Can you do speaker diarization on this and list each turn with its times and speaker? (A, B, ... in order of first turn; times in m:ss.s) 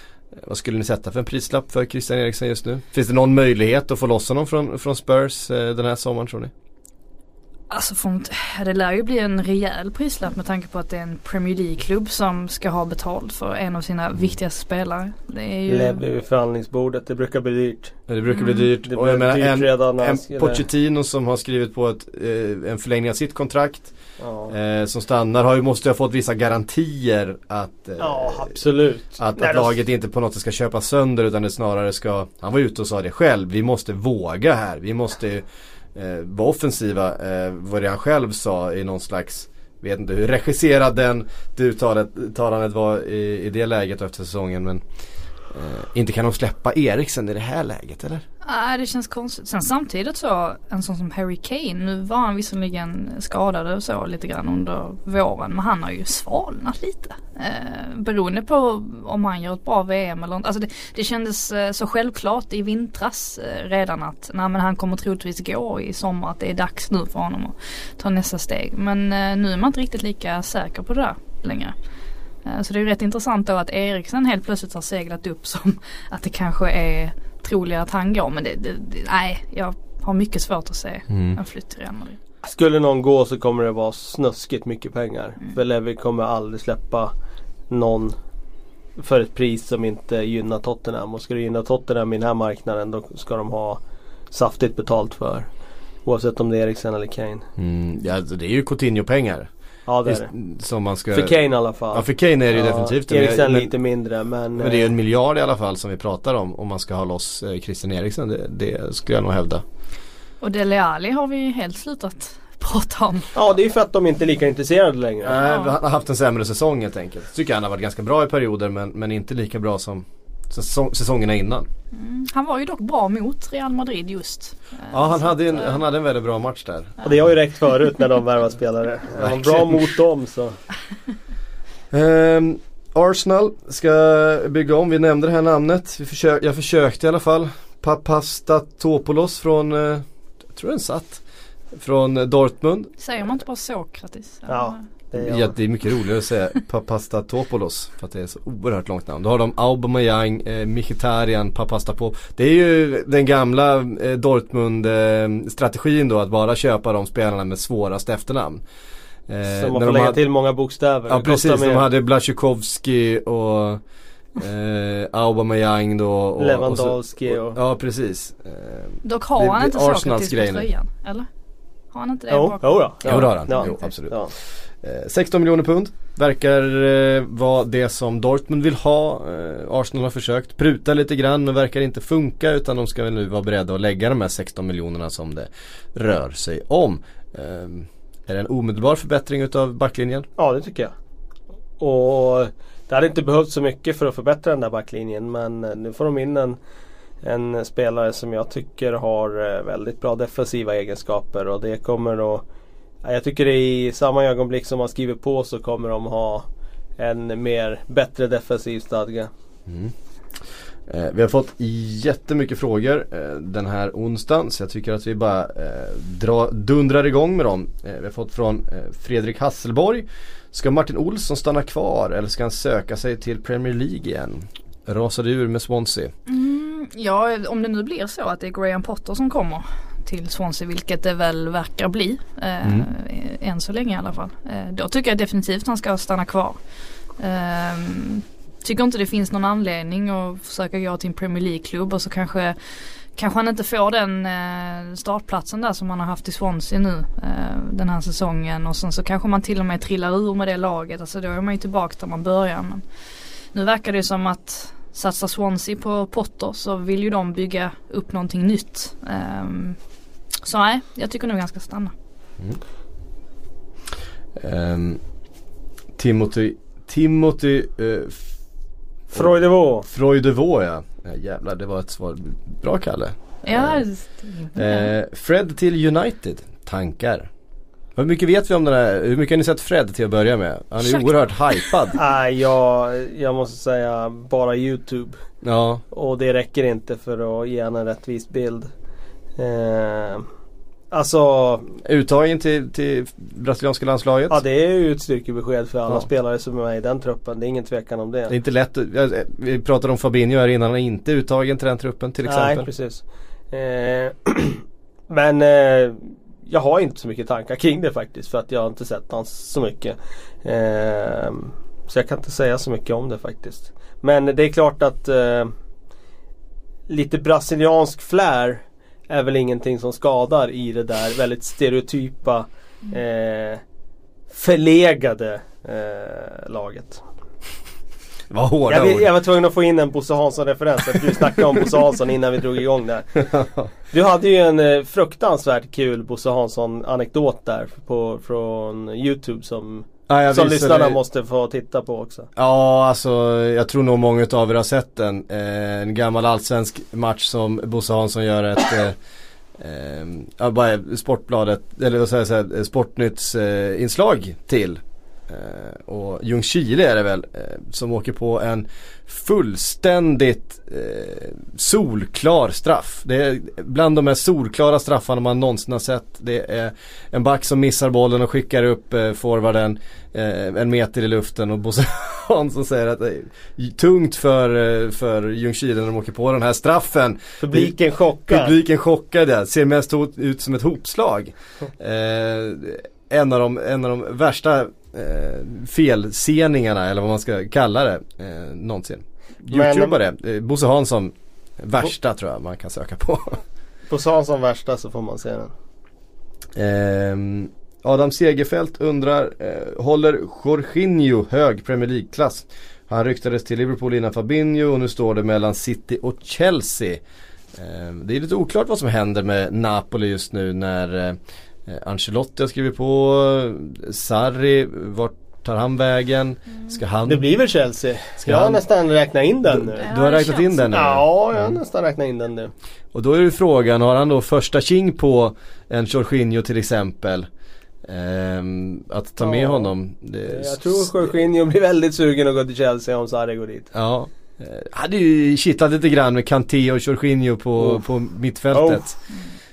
0:00.3-0:06.5 A
0:07.7-0:16.0 B
0:15.7-0:18.0 C
0:18.1-0:23.9 A
0:18.3-0:18.7 B
0:18.8-0:20.6 C
0:24.2-0:24.5 C
0:24.5-0:28.6 A
0:28.0-0:29.7 C
0:29.2-0:44.8 A
0:45.5-0:48.2 A
0:48.4-1:11.8 B
1:12.4-1:22.2 B
1:21.1-1:21.4 A
1:22.4-1:27.1 C
1:27.7-1:28.2 C
1:29.0-1:33.8 C
1:34.3-1:35.5 C
1:36.0-1:37.5 C
1:37.6-1:39.5 A
1:39.9-1:40.3 C
1:40.0-1:41.4 A
1:41.1-1:44.9 C
1:41.9-1:43.7 A
1:44.6-1:49.6 A
1:50.4-1:53.4 B
1:53.4-1:55.4 C
1:55.2-2:01.7 A
1:55.4-1:55.7 B
2:01.9-2:05.8 B
2:04.9-2:07.0 A
2:07.0-2:10.6 C
2:09.1-2:09.8 A
2:11.9-2:21.2 A
2:21.7-2:22.9 A
2:23.0-2:24.8 B
2:24.5-2:25.6 C
2:25.2-2:38.6 A
2:39.3-2:40.2 A
2:39.5-2:41.9 C
2:41.1-2:43.8 A
2:44.4-2:50.7 A
2:46.4-2:47.6 C
2:49.0-2:51.3 B
2:51.9-2:53.9 B
2:52.3-2:54.4 C
2:53.1-2:54.2 A
2:54.7-3:10.3 A
3:10.4-3:10.9 C
3:11.8-3:16.6 C
3:17.2-3:22.4 C
3:23.0-3:26.5 C
3:27.0-3:29.3 C
3:29.7-3:29.9 A
3:30.9-3:46.1 A
3:46.3-3:56.6 B
3:57.2-4:02.6 B
4:03.2-4:12.8 B
4:13.5-4:19.8 B
4:20.4-4:21.9 B
4:24.4-4:25.0 A
4:26.0-4:28.2 A
4:29.1-4:33.8 A
4:29.1-4:29.9 C
4:33.4-4:34.9 B
4:34.6-4:37.3 A
4:38.0-4:42.0 A
4:40.8-4:42.0 B
4:42.0-4:45.2 C
4:45.4-4:45.8 A
4:45.9-4:48.7 C
4:49.4-4:50.3 C
4:50.9-4:51.8 C
4:51.8-4:54.4 A
4:54.3-4:58.4 C
4:58.3-5:02.7 A
5:02.2-5:15.5 C
5:16.9-5:23.6 C
5:24.3-5:27.0 C
5:28.3-5:29.1 A
5:28.7-5:33.3 C
5:33.3-5:33.7 A
5:33.9-5:42.3 C
5:40.1-5:41.0 A
5:42.4-5:49.0 A
5:49.6-6:17.7 A
6:17.4-6:18.6 C
6:18.3-6:33.4 A
6:29.5-6:30.0 C
6:33.9-6:35.5 C
6:36.6-6:47.0 A
6:47.5-6:57.3 A
6:57.1-6:59.9 C
6:58.2-6:58.6 A
6:59.6-7:01.6 A
6:59.8-7:00.8 B
7:00.7-7:02.5 C
7:02.9-7:07.3 A
7:07.8-7:10.9 A
7:09.2-7:09.7 C
7:10.3-7:13.7 C
7:13.7-7:19.0 A
7:17.6-7:17.8 C
7:18.5-7:18.9 C